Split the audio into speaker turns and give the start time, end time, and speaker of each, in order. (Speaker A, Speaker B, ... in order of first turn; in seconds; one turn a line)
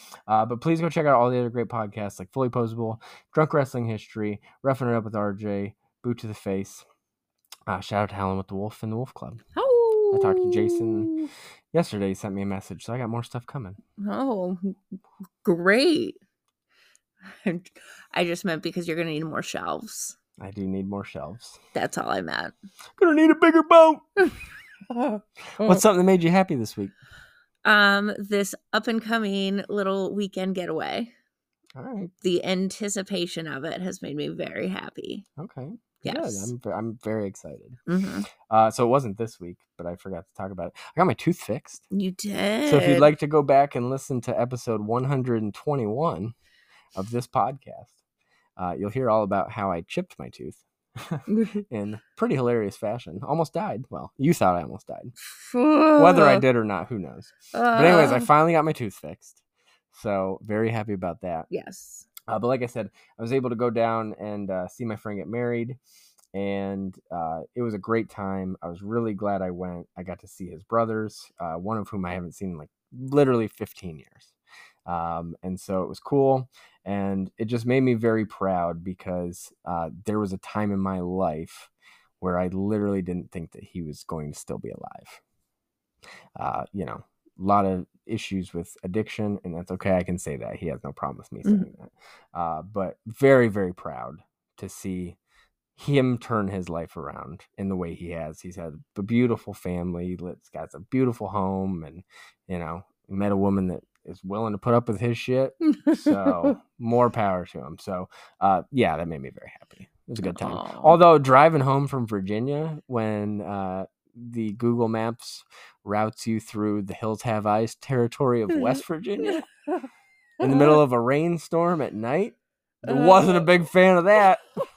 Speaker A: 0.3-6.8
Speaker A: 7.7-9.4
Speaker B: 9.5-11.3
Speaker A: 10.1-11.1
Speaker A: 11.7-13.8
Speaker B: 14.0-14.7
Speaker B: 15.4-16.2
Speaker B: 17.4-20.1
Speaker A: 20.4-21.6
Speaker B: 21.7-22.5
Speaker A: 23.0-24.1
Speaker B: 24.9-25.8
Speaker A: 25.6-26.9
Speaker B: 27.6-31.1
Speaker A: 31.8-32.1
Speaker B: 32.2-35.2
Speaker A: 35.4-37.8
Speaker B: 36.0-36.5
Speaker B: 37.9-38.3
Speaker A: 38.4-41.8
Speaker B: 41.9-43.1
Speaker A: 42.6-46.3
Speaker A: 46.9-47.9
Speaker A: 48.6-55.1
Speaker B: 51.3-51.6
Speaker B: 55.3-56.4
Speaker A: 56.0-59.4
Speaker B: 57.5-58.3
Speaker A: 59.9-61.5
Speaker B: 61.5-62.1
Speaker A: 62.3-65.8
Speaker A: 66.3-74.3
Speaker A: 74.8-81.7
Speaker A: 82.2-85.2
Speaker A: 86.3-95.2
Speaker B: 91.4-91.7
Speaker A: 95.8-119.4
Speaker B: 105.8-106.5
Speaker B: 110.2-111.0
Speaker A: 120.4-124.4
Speaker B: 120.4-120.8
Speaker B: 122.9-123.5